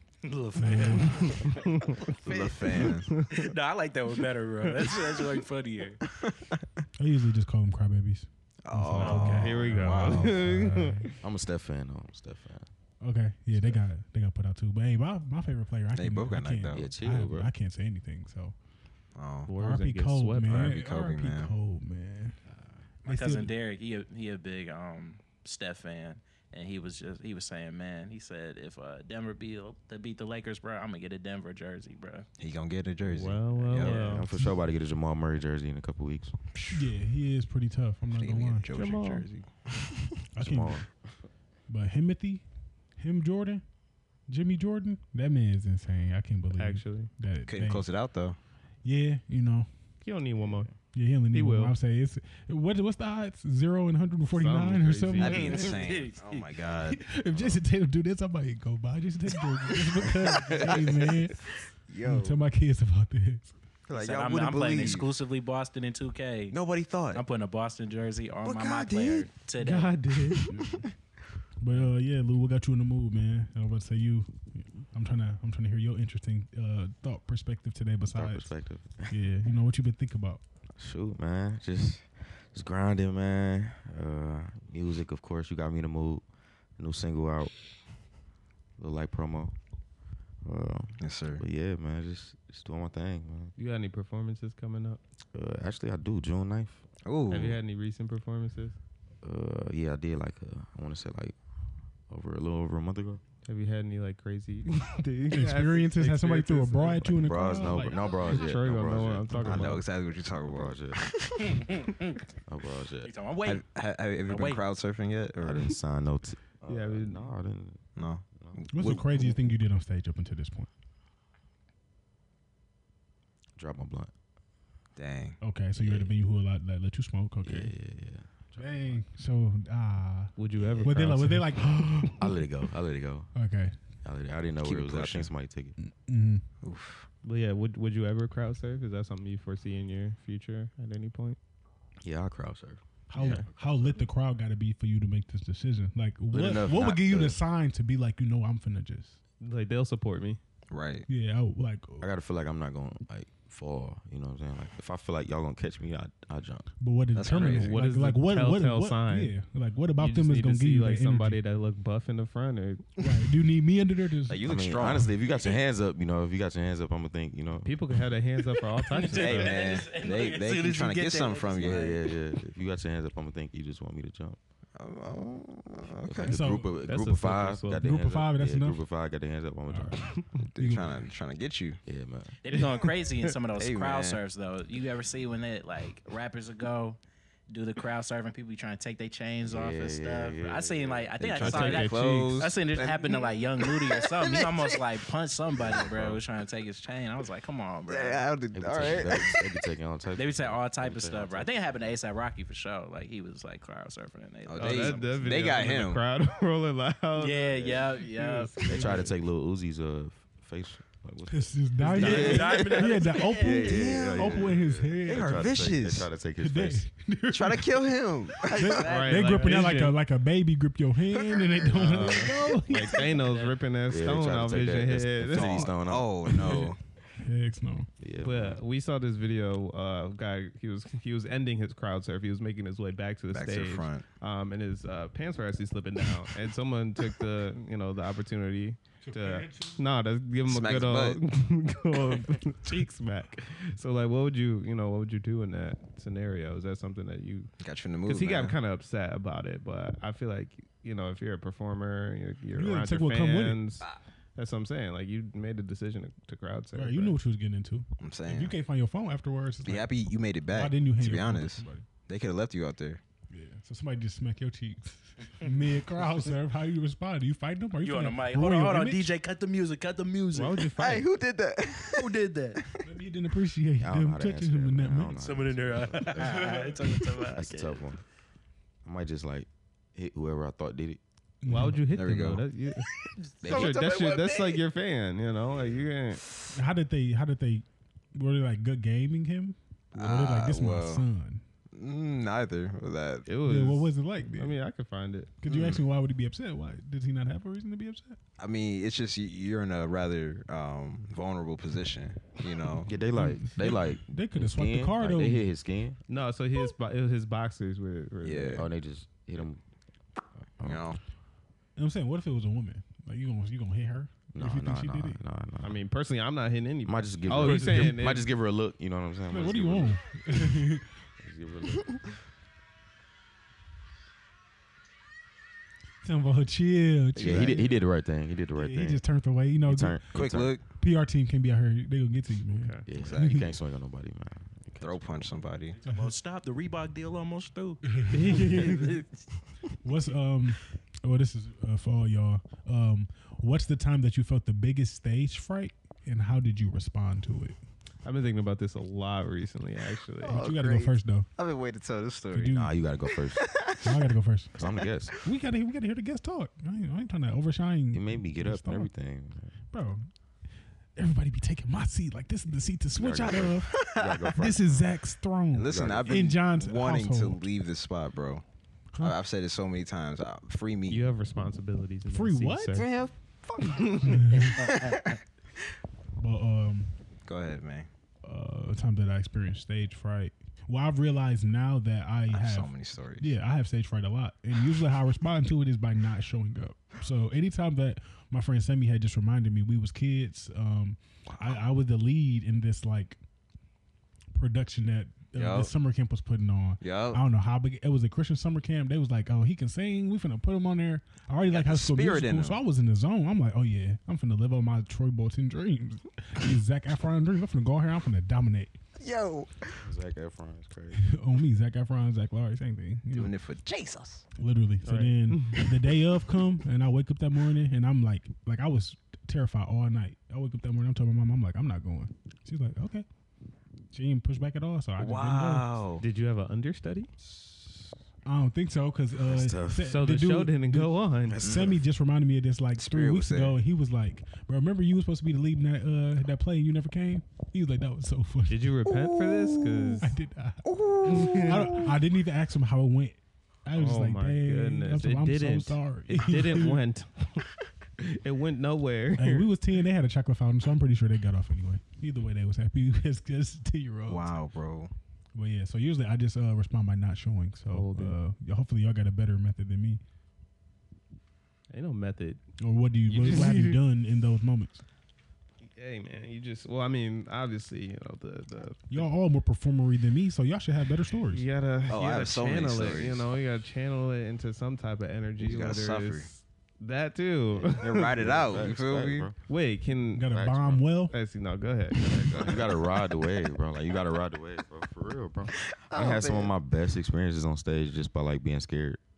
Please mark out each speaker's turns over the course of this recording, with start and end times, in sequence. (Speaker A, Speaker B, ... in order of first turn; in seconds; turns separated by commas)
Speaker A: 0.2-6.0, Speaker B: 0.6-1.3, Speaker C: 0.8-3.5, Speaker D: 2.1-3.1, Speaker C: 4.7-5.0, Speaker D: 6.0-6.6, Speaker B: 7.0-11.1, Speaker D: 8.6-10.5, Speaker A: 9.0-9.8, Speaker C: 9.1-11.2, Speaker E: 11.2-12.7, Speaker B: 13.0-18.5, Speaker D: 15.9-16.9, Speaker E: 16.7-17.5, Speaker D: 19.1-19.5, Speaker C: 19.5-20.8, Speaker B: 19.6-22.4, Speaker D: 20.5-21.5, Speaker B: 23.0-23.5, Speaker A: 23.0-32.3, Speaker D: 32.4-34.1, Speaker C: 33.1-34.3, Speaker A: 33.5-34.1, Speaker E: 33.9-36.3, Speaker D: 36.5-36.9, Speaker B: 36.7-38.9, Speaker D: 38.2-40.0, Speaker C: 38.7-39.3, Speaker B: 40.3-40.9, Speaker E: 40.4-41.1, Speaker B: 41.7-42.4, Speaker B: 43.0-43.6, Speaker B: 44.3-47.9, Speaker C: 46.6-47.1, Speaker D: 47.5-48.4, Speaker B: 48.8-49.7, Speaker C: 50.0-51.7, Speaker B: 50.9-55.7, Speaker C: 54.3-55.8, Speaker D: 55.1-57.6, Speaker A: 55.2-56.5, Speaker B: 56.8-61.5, Speaker D: 59.6-62.4, Speaker B: 62.0-63.5, Speaker D: 63.9-65.1, Speaker A: 63.9-66.6, Speaker D: 66.5-67.2, Speaker A: 67.1-70.0, Speaker D: 68.4-69.3, Speaker C: 69.6-70.5, Speaker B: 70.5-70.8, Speaker B: 71.6-78.5, Speaker E: 78.1-79.2, Speaker B: 79.1-80.4, Speaker E: 80.8-86.2, Speaker E: 86.8-87.5, Speaker E: 88.8-89.5, Speaker E: 90.4-93.5, Speaker D: 91.0-91.4, Speaker C: 93.6-95.0, Speaker E: 95.3-96.8, Speaker D: 97.0-97.6, Speaker C: 97.3-98.8, Speaker E: 99.2-101.3, Speaker E: 102.1-103.2, Speaker C: 103.4-109.8, Speaker B: 105.3-108.4, Speaker E: 107.2-111.0, Speaker D: 109.4-111.7, Speaker A: 111.4-112.2, Speaker E: 112.5-113.1, Speaker A: 113.0-113.6, Speaker D: 113.4-115.7, Speaker A: 114.3-114.6, Speaker E: 115.4-117.8, Speaker C: 116.7-117.3, Speaker D: 118.0-119.4, Speaker E: 118.3-118.6, Speaker B: 118.7-120.7, Speaker E: 123.5-124.1, Speaker D: 125.0-125.4, Speaker B: 125.4-127.7, Speaker E: 125.8-126.1, Speaker E: 127.4-129.0, Speaker B: 128.6-132.4, Speaker C: 130.4-131.7, Speaker E: 130.6-130.8, Speaker E: 132.2-133.3, Speaker B: 133.3-133.7, Speaker E: 134.0-135.7, Speaker D: 134.6-135.3, Speaker B: 135.8-136.4, Speaker D: 136.6-137.1, Speaker C: 137.2-141.4, Speaker E: 142.0-143.9, Speaker B: 143.1-149.2, Speaker D: 143.2-143.4, Speaker C: 143.2-143.4, Speaker E: 146.3-147.4, Speaker C: 149.4-150.4, Speaker D: 150.7-151.1, Speaker B: 151.1-152.1, Speaker E: 152.0-156.7, Speaker B: 156.8-161.4, Speaker D: 157.1-157.8, Speaker A: 157.2-157.5, Speaker C: 157.3-159.3, Speaker C: 160.0-162.9, Speaker B: 163.0-165.1, Speaker D: 164.3-165.1, Speaker E: 164.4-168.0, Speaker A: 165.3-165.6, Speaker C: 167.6-169.6, Speaker A: 168.9-172.1, Speaker D: 168.9-172.0, Speaker E: 171.6-174.4, Speaker D: 174.8-176.6, Speaker E: 176.0-180.1, Speaker B: 176.2-176.8, Speaker C: 176.8-178.0, Speaker B: 177.8-178.8, Speaker B: 179.7-180.9, Speaker D: 180.4-181.8, Speaker E: 181.8-182.4, Speaker A: 182.4-187.0, Speaker D: 183.5-184.2, Speaker A: 187.5-198.2, Speaker E: 189.4-191.6, Speaker D: 191.2-194.7, Speaker C: 191.4-192.4, Speaker E: 195.5-196.2, Speaker D: 197.9-199.4, Speaker E: 198.5-201.5, Speaker A: 200.1-205.2, Speaker D: 204.5-206.0, Speaker C: 204.5-209.1, Speaker A: 207.2-208.9, Speaker E: 208.6-216.9, Speaker B: 211.3-215.7, Speaker D: 211.9-212.7, Speaker A: 211.9-213.9, Speaker D: 213.4-216.1, Speaker B: 216.4-223.2, Speaker D: 217.3-219.0, Speaker A: 218.7-219.6, Speaker C: 218.8-220.0, Speaker D: 221.1-222.3, Speaker C: 221.7-225.8, Speaker A: 222.7-223.6, Speaker E: 223.9-226.7, Speaker D: 225.3-226.8, Speaker B: 226.4-227.9, Speaker E: 228.0-228.6, Speaker C: 228.2-247.5, Speaker D: 233.3-234.1, Speaker D: 240.4-241.2, Speaker D: 247.6-248.6, Speaker C: 248.0-257.2, Speaker B: 252.5-253.6, Speaker B: 256.7-261.9, Speaker D: 258.0-258.5, Speaker D: 259.6-263.0, Speaker B: 263.3-269.0, Speaker A: 267.8-270.7, Speaker C: 270.3-271.1, Speaker D: 270.8-272.8, Speaker A: 271.8-272.6, Speaker B: 272.8-275.2, Speaker E: 273.8-276.7, Speaker A: 275.1-277.8, Speaker B: 276.1-276.6, Speaker E: 277.3-278.0, Speaker E: 278.8-281.0, Speaker B: 281.4-282.4, Speaker C: 281.5-282.9, Speaker D: 281.9-282.4, Speaker A: 283.2-284.6, Speaker D: 283.4-284.1, Speaker C: 283.4-286.2, Speaker B: 286.5-291.4, Speaker D: 289.9-291.0, Speaker D: 291.7-293.3, Speaker C: 293.2-295.3, Speaker B: 293.4-294.6, Speaker B: 295.4-298.2, Speaker D: 295.4-295.8, Speaker D: 298.4-302.9, Speaker E: 302.8-306.0, Speaker B: 303.1-305.5, Speaker C: 306.1-308.7, Speaker D: 308.2-308.6, Speaker E: 308.5-309.6, Speaker E: 310.6-311.0, Speaker D: 310.6-311.0, Speaker B: 311.8-315.2, Speaker E: 314.3-315.8, Speaker C: 315.6-318.2, Speaker E: 316.8-320.6, Speaker B: 317.4-317.9, Speaker B: 319.3-320.9, Speaker E: 321.2-322.1, Speaker B: 326.0-327.9, Speaker E: 327.1-329.0, Speaker D: 327.2-327.6, Speaker B: 328.5-333.5, Speaker E: 329.6-330.6, Speaker D: 330.1-330.6, Speaker E: 332.8-335.4, Speaker D: 332.9-333.5, Speaker D: 334.8-335.8, Speaker A: 335.8-339.0, Speaker B: 338.0-338.4, Speaker C: 338.1-339.0, Speaker B: 339.8-347.6, Speaker C: 348.0-350.4, Speaker B: 350.2-351.3, Speaker D: 350.2-353.9, Speaker B: 352.3-352.7, Speaker E: 352.4-353.5, Speaker B: 353.8-354.6, Speaker E: 354.5-355.2, Speaker B: 355.2-358.9, Speaker E: 357.9-359.5, Speaker B: 359.7-360.1, Speaker B: 360.9-367.4, Speaker E: 362.9-364.9, Speaker D: 363.8-364.3, Speaker D: 365.5-368.4, Speaker E: 365.6-366.2, Speaker D: 369.0-371.1, Speaker C: 370.9-372.9, Speaker B: 372.1-372.9, Speaker D: 372.7-375.1, Speaker C: 373.6-374.2, Speaker B: 374.0-374.6, Speaker A: 374.6-375.2, Speaker B: 376.2-376.9, Speaker D: 377.2-377.9, Speaker B: 378.2-393.2, Speaker D: 382.3-383.3, Speaker B: 394.3-408.7, Speaker D: 395.3-395.7, Speaker D: 396.8-397.2, Speaker D: 401.5-402.6, Speaker D: 409.0-409.8, Speaker E: 409.8-411.1, Speaker B: 411.0-413.3, Speaker D: 413.1-414.2, Speaker B: 414.4-423.1, Speaker C: 414.8-416.0, Speaker B: 423.9-425.7, Speaker D: 425.0-426.0, Speaker C: 426.0-427.1, Speaker B: 428.2-438.8, Speaker E: 429.2-429.9, Speaker C: 429.9-431.4, Speaker E: 431.3-431.8, Speaker D: 431.4-431.7, Speaker D: 432.8-433.6, Speaker C: 438.5-440.1, Speaker D: 438.8-440.0, Speaker B: 440.0-446.8, Speaker D: 440.6-441.8, Speaker C: 441.1-441.9, Speaker C: 443.7-447.5, Speaker C: 448.0-449.5, Speaker B: 449.2-454.4, Speaker D: 454.1-454.9, Speaker B: 455.3-460.0, Speaker C: 457.6-458.2, Speaker C: 461.7-462.4, Speaker B: 462.6-464.8, Speaker C: 463.1-463.8, Speaker C: 465.7-469.0, Speaker B: 468.9-471.4, Speaker C: 471.3-478.2, Speaker D: 471.9-473.3, Speaker D: 475.4-476.3, Speaker D: 477.7-479.3, Speaker E: 477.9-479.4, Speaker C: 479.4-480.3, Speaker B: 480.1-481.1, Speaker E: 480.2-480.9, Speaker C: 481.1-482.5, Speaker D: 482.0-482.7, Speaker E: 482.1-489.0, Speaker D: 485.9-486.5